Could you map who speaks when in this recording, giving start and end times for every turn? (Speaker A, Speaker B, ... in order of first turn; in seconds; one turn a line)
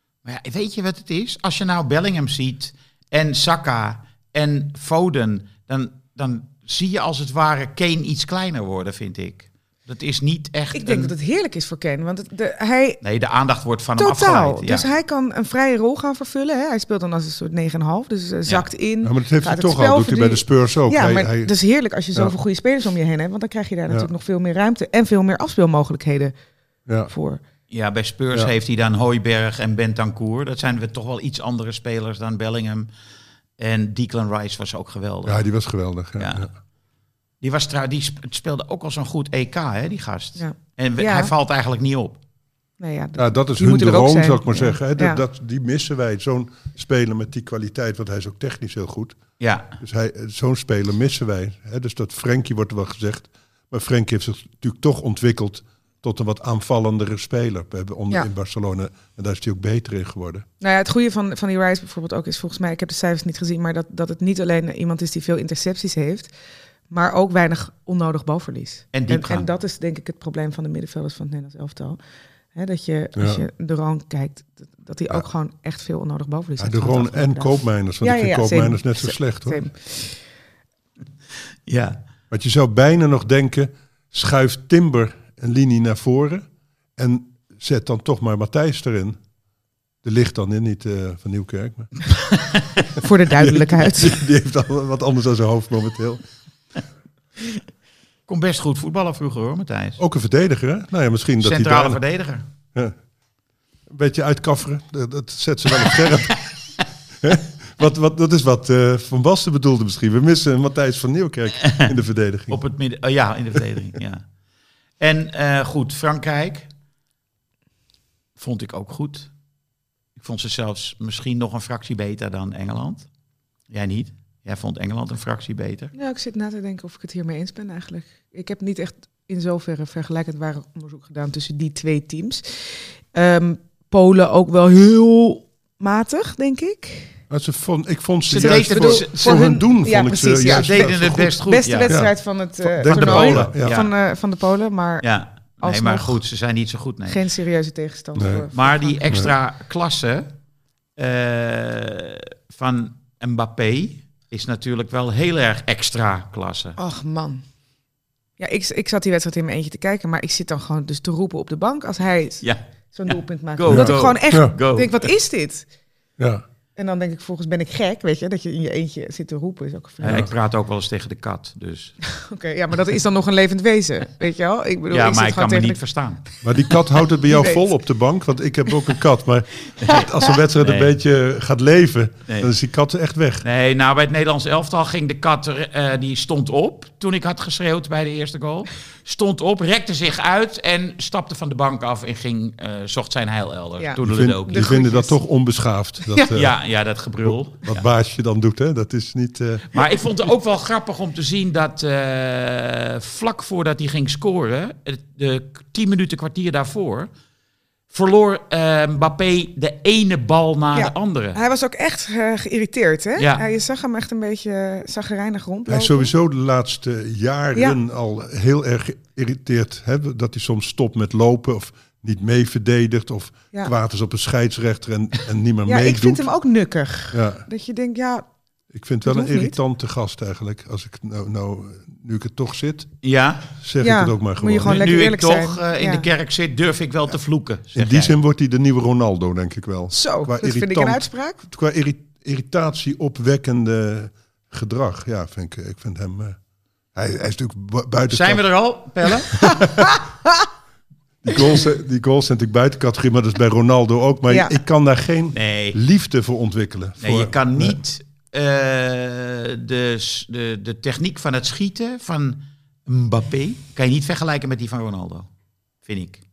Speaker A: 0.2-11.1
Speaker B: 10.7-13.0
Speaker A: 13.0-14.9
Speaker B: 14.0-26.3
Speaker C: 19.0-21.5
Speaker B: 27.1-27.4
Speaker A: 27.7-32.9
Speaker A: 33.6-35.4
Speaker C: 35.2-36.5
Speaker A: 36.2-36.5
Speaker A: 37.4-42.2
Speaker B: 40.4-41.3
Speaker B: 42.8-45.2
Speaker C: 43.2-49.2
Speaker A: 49.4-49.8
Speaker C: 49.8-60.4
Speaker B: 60.6-66.3
Speaker B: 66.9-72.0
Speaker A: 68.9-69.5
Speaker B: 72.5-80.2
Speaker C: 73.2-73.4
Speaker C: 76.6-79.7
Speaker A: 81.7-82.0
Speaker C: 82.3-89.2
Speaker C: 90.0-91.9
Speaker A: 92.4-92.8
Speaker B: 93.0-94.2
Speaker C: 93.3-96.2
Speaker A: 98.3-100.0
Speaker C: 100.0-102.0
Speaker A: 101.4-102.4
Speaker C: 103.9-106.5
Speaker C: 107.2-112.6
Speaker A: 112.5-114.2
Speaker A: 115.0-116.7
Speaker A: 118.4-119.3
Speaker A: 120.2-123.0
Speaker A: 123.7-125.9
Speaker B: 125.9-137.2
Speaker C: 137.3-143.8
Speaker A: 138.3-139.5
Speaker B: 138.3-145.1
Speaker A: 140.4-141.9
Speaker A: 142.9-143.9
Speaker A: 145.0-147.2
Speaker B: 145.6-146.2
Speaker B: 147.1-148.9
Speaker C: 148.2-148.4
Speaker A: 148.5-150.3
Speaker A: 151.0-156.8
Speaker B: 156.8-157.4
Speaker B: 158.4-165.7
Speaker A: 162.4-165.1
Speaker C: 163.7-164.5
Speaker C: 166.2-166.4
Speaker B: 166.8-170.2
Speaker A: 170.0-172.0
Speaker C: 170.0-170.3
Speaker B: 172.1-175.8
Speaker A: 174.9-176.2
Speaker C: 176.4-183.4
Speaker B: 177.3-177.7
Speaker A: 180.6-180.9
Speaker A: 183.4-194.7
Speaker B: 193.8-195.2
Speaker C: 194.0-196.5
Speaker A: 196.3-197.8
Speaker C: 197.2-199.7
Speaker A: 199.7-207.1
Speaker A: 207.9-211.4
Speaker B: 210.7-216.1
Speaker C: 215.7-226.3
Speaker B: 225.7-228.2
Speaker C: 227.1-227.4
Speaker C: 228.7-232.9
Speaker B: 229.0-229.6
Speaker A: 233.0-233.5
Speaker C: 233.6-234.9
Speaker B: 233.8-236.1
Speaker A: 234.7-238.1
Speaker C: 237.7-246.4
Speaker B: 239.9-241.4
Speaker C: 246.9-248.4
Speaker A: 248.1-249.4
Speaker C: 249.4-249.9
Speaker B: 249.6-250.3
Speaker C: 251.2-257.8
Speaker B: 254.3-254.6
Speaker A: 255.3-255.8
Speaker A: 257.0-265.3
Speaker A: 265.8-266.2